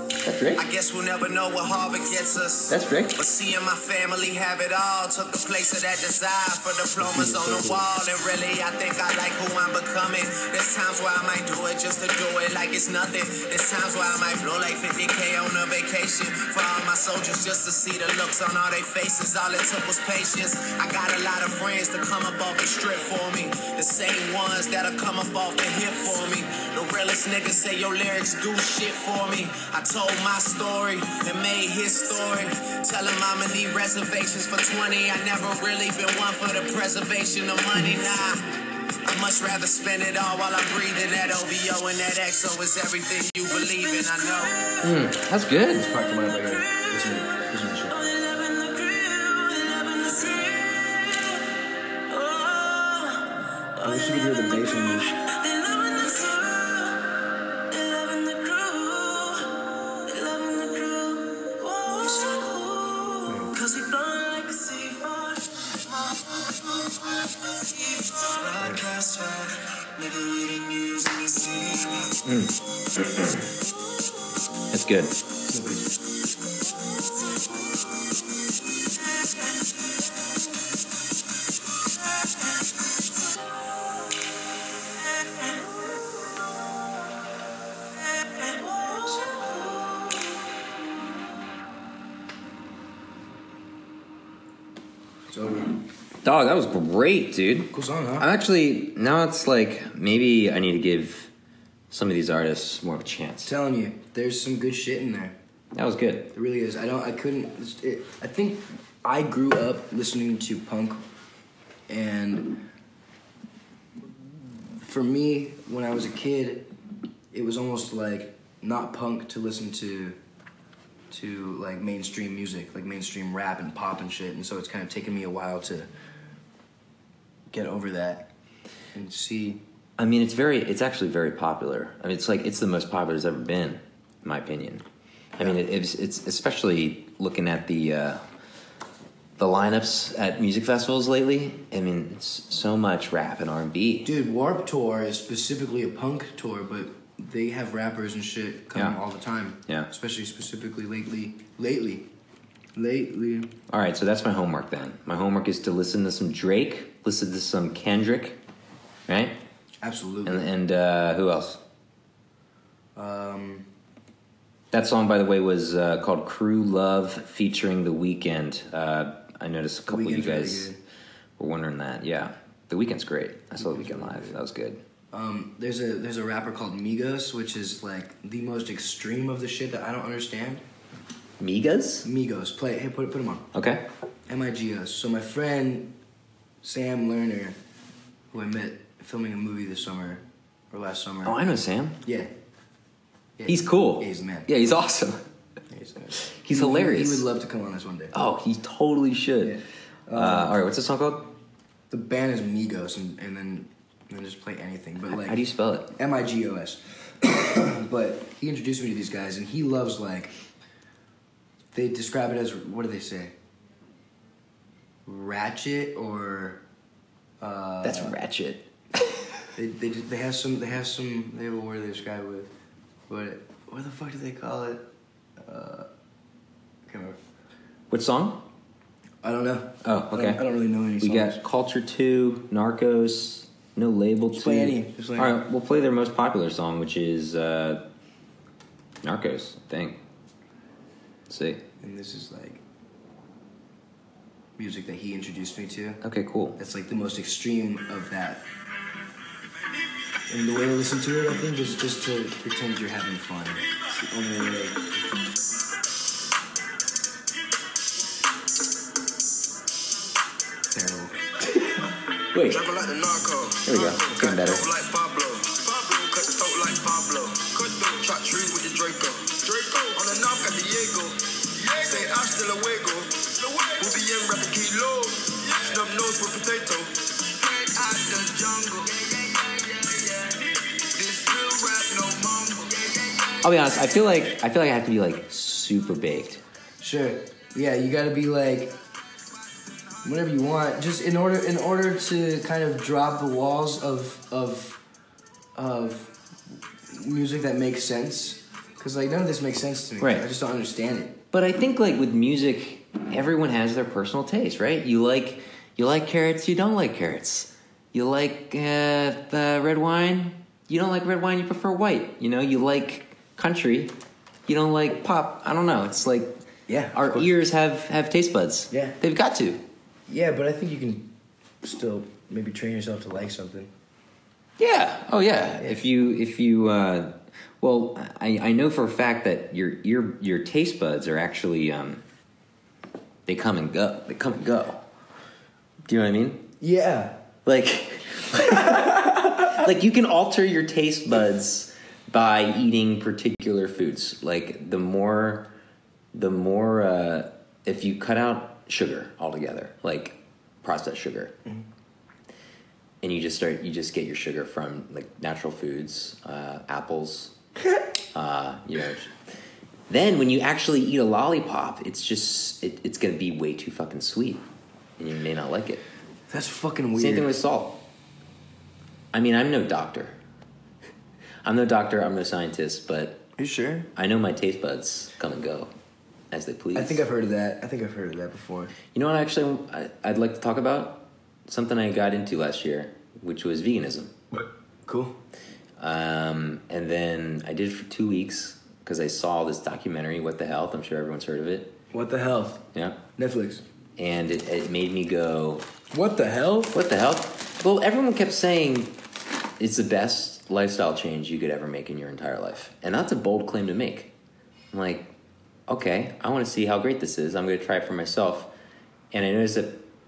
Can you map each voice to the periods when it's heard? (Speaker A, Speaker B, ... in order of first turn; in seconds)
Speaker A: 0.2-0.7, 2.7-3.2, 44.8-45.9, 72.2-73.5, 74.7-75.2, 96.2-101.3, 101.9-103.5, 105.7-106.3, 130.0-134.8, 135.4-138.2, 139.4-144.1, 148.7-149.0, 153.7-158.4, 159.1-159.4, 160.2-161.6, 164.7-170.7, 171.4-174.8, 181.4-182.1, 183.5-183.8, 191.2-192.0, 193.4-195.2, 196.2-197.3, 198.1-199.6, 200.1-201.3, 205.1-205.9, 217.8-219.1, 227.9-228.4, 229.8-230.4, 231.0-237.9, 239.0-240.0, 241.3-241.6, 246.0-246.6, 262.3-262.6, 263.6-264.6, 283.4-286.4, 300.0-300.3, 301.3-313.9, 314.5-319.6, 324.6-332.0, 333.2-334.8, 335.9-336.5, 337.4-345.5, 346.1-351.4, 353.0-357.3, 358.1-359.1, 359.9-364.4, 365.0-365.8, 366.9-367.8, 369.1-370.2, 371.4-373.3, 373.9-375.7, 376.3-377.0, 378.9-384.1, 385.8-391.8, 392.7-393.0, 393.9-395.7, 396.7-398.9, 399.6-404.1, 404.7-405.1, 405.7-408.5, 409.1-409.9
Speaker B: 0.6-38.5, 39.0-44.6
Speaker C: 7.0-7.8, 45.7-47.9, 53.8-55.2, 63.3-63.5, 75.5-75.8, 95.3-95.8, 97.7-98.3, 103.4-105.3, 106.3-111.0, 111.9-112.7, 114.8-116.7, 117.3-120.2, 121.1-125.9, 127.5-128.3, 128.9-129.6, 144.0-152.1, 152.7-153.5, 159.8-160.5, 162.9-163.7, 169.9-170.8, 173.6-174.4, 175.1-180.6, 182.0-183.5, 184.3-185.9, 186.6-187.6, 188.3-191.4, 192.0-192.3, 193.4-194.5, 195.7-198.1, 199.4-200.6, 201.9-205.4, 205.9-210.3, 211.7-213.3, 215.1-216.6, 217.4-218.2, 219.5-222.5, 223.1-224.8, 225.4-225.9, 226.8-227.2, 229.2-231.4, 234.3-235.3, 241.8-242.6, 244.6-246.0, 246.6-248.4, 250.3-254.8, 260.7-261.1, 286.8-288.8, 290.0-294.8, 295.5-296.1, 296.9-301.2, 316.7-317.3, 318.7-318.9, 320.1-323.7, 336.6-337.2, 366.3-367.3, 373.4-373.9, 376.7-378.7, 384.3-385.2, 391.9-392.6, 393.2-393.6, 395.9-396.8
Speaker D: 46.7-51.4, 52.1-72.2
Speaker E: 262.4-283.4